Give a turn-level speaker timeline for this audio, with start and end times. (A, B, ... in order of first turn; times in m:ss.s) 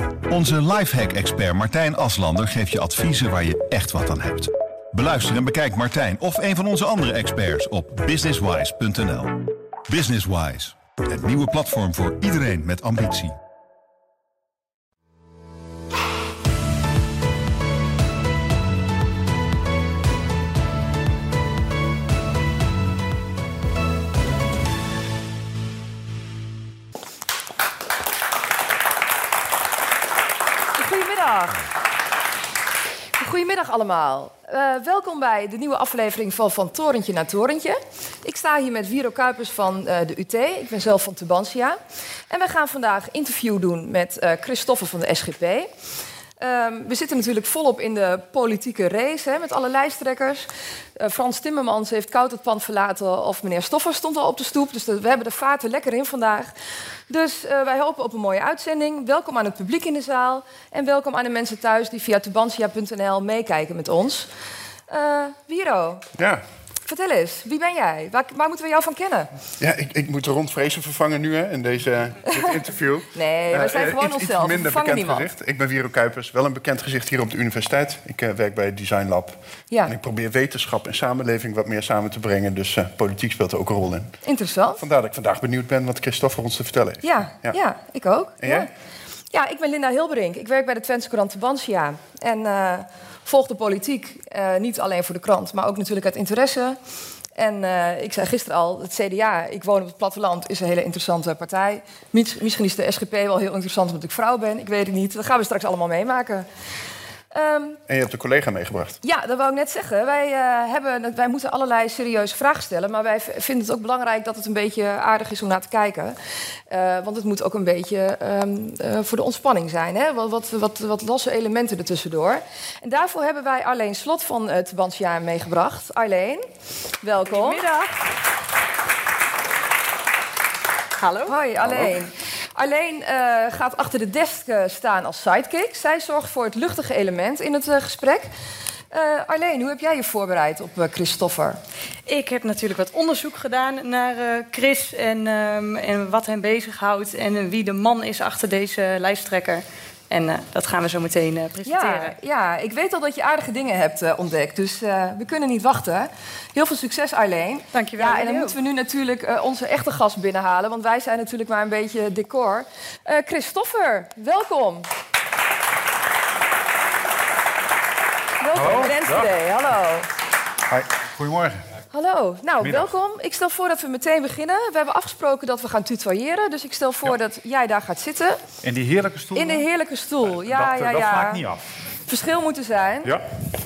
0:00.3-0:13.4 A
0:30.7-0:31.7 B
0:33.2-0:45.7 B
0:46.4-0:56.5 B
0:57.1-1:04.3 B
1:04.9-1:06.0 B
1:06.2-1:06.4 C
1:06.8-1:09.3 B
1:09.6-1:24.1 C
1:13.1-1:15.3 B
1:24.2-1:24.8 B
1:24.8-1:27.6 C
1:27.0-1:28.7 B
1:28.4-1:28.7 C
1:29.3-1:36.8 B
1:37.4-1:46.5 B
1:47.3-1:47.8 B
1:47.9-1:49.0 C
1:49.0-1:56.2 B
1:56.7-2:06.4 B
2:07.0-2:07.6 B
2:07.3-2:08.0 D
2:11.0-2:11.4 D
2:11.2-2:18.3 B
2:18.9-2:21.6 B
2:22.0-2:32.1 D
2:31.6-2:44.9 B
2:37.7-2:38.6 D
2:48.4-2:50.1 B
2:48.5-2:49.3 E
2:50.7-2:51.6 E
2:51.9-2:58.4 B
2:52.6-2:52.9 E
2:58.6-2:59.6 E
2:59.3-3:01.4 B
3:00.2-3:01.7 E
3:02.1-3:03.1 B